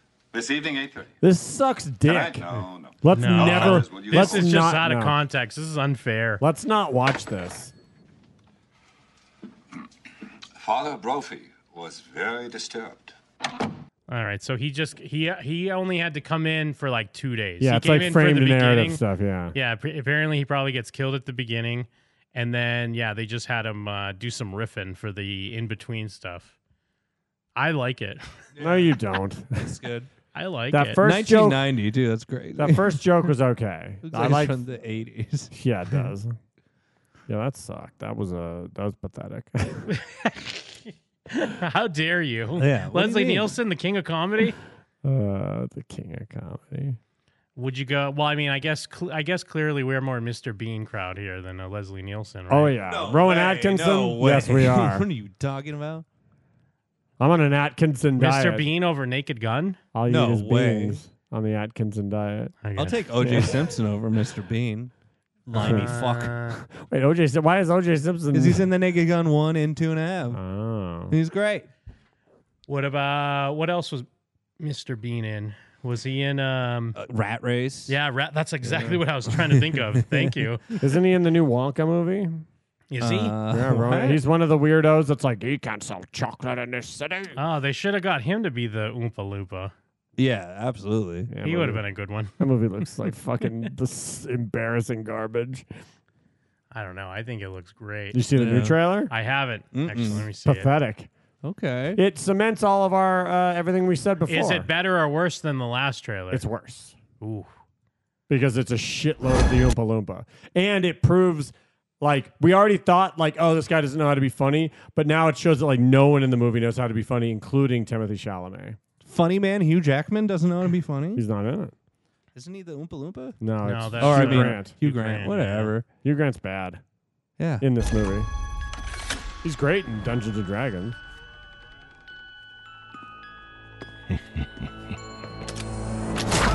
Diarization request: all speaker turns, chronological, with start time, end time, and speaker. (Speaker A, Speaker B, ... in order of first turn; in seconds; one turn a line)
Speaker A: 0.3-1.1
Speaker B: 1.2-5.2
Speaker A: 2.1-4.3
Speaker C: 3.1-6.4
Speaker B: 6.4-7.7
Speaker A: 10.6-13.1
Speaker C: 14.1-19.0
Speaker B: 17.6-19.6
Speaker C: 19.5-26.6
Speaker C: 27.6-28.2
Speaker D: 28.6-29.0
Speaker B: 28.6-29.7
Speaker D: 29.6-30.1
Speaker C: 30.3-31.0
Speaker B: 30.7-31.6
Speaker D: 31.0-33.1
Speaker B: 32.6-34.6
Speaker D: 34.0-36.0
Speaker B: 35.5-36.4
Speaker B: 37.3-39.9
Speaker C: 40.2-40.8
Speaker C: 41.3-44.6
Speaker D: 42.6-43.6
Speaker B: 45.0-47.0
Speaker C: 47.6-52.8
Speaker B: 52.5-55.1
Speaker D: 52.9-56.0
Speaker B: 57.2-58.6
Speaker C: 58.2-59.8
Speaker B: 59.9-62.5
Speaker D: 60.1-61.0
Speaker C: 62.6-63.0
Speaker D: 62.8-64.9
Speaker B: 63.2-63.5
Speaker D: 65.5-66.4
Speaker C: 65.5-66.6
Speaker B: 65.6-66.0
Speaker B: 66.6-68.7
Speaker D: 68.3-70.4
Speaker B: 70.3-71.2
Speaker D: 71.1-71.7
Speaker C: 72.7-74.1
Speaker C: 74.6-77.0
Speaker D: 77.0-78.0
Speaker C: 77.9-80.6
Speaker D: 78.6-80.4
Speaker B: 80.8-82.4
Speaker C: 82.9-83.3
Speaker D: 83.0-84.2
Speaker B: 83.5-87.4
Speaker C: 87.4-89.7
Speaker D: 90.2-91.3
Speaker B: 91.3-91.8
Speaker C: 91.4-92.3
Speaker B: 92.4-95.7
Speaker C: 96.7-98.2
Speaker B: 98.1-99.1
Speaker D: 98.4-98.8
Speaker C: 99.1-100.7
Speaker D: 99.7-100.3
Speaker B: 100.4-101.1
Speaker D: 101.4-102.0
Speaker B: 102.0-104.7
Speaker C: 104.3-106.4
Speaker B: 106.3-107.0
Speaker C: 107.2-107.5
Speaker B: 108.3-118.8
Speaker D: 119.0-121.2
Speaker B: 121.2-121.7
Speaker D: 122.4-123.4
Speaker B: 123.4-124.7
Speaker C: 123.7-125.7
Speaker D: 124.0-125.9
Speaker B: 126.0-126.8
Speaker D: 127.4-127.7
Speaker B: 127.6-128.3
Speaker B: 129.4-131.0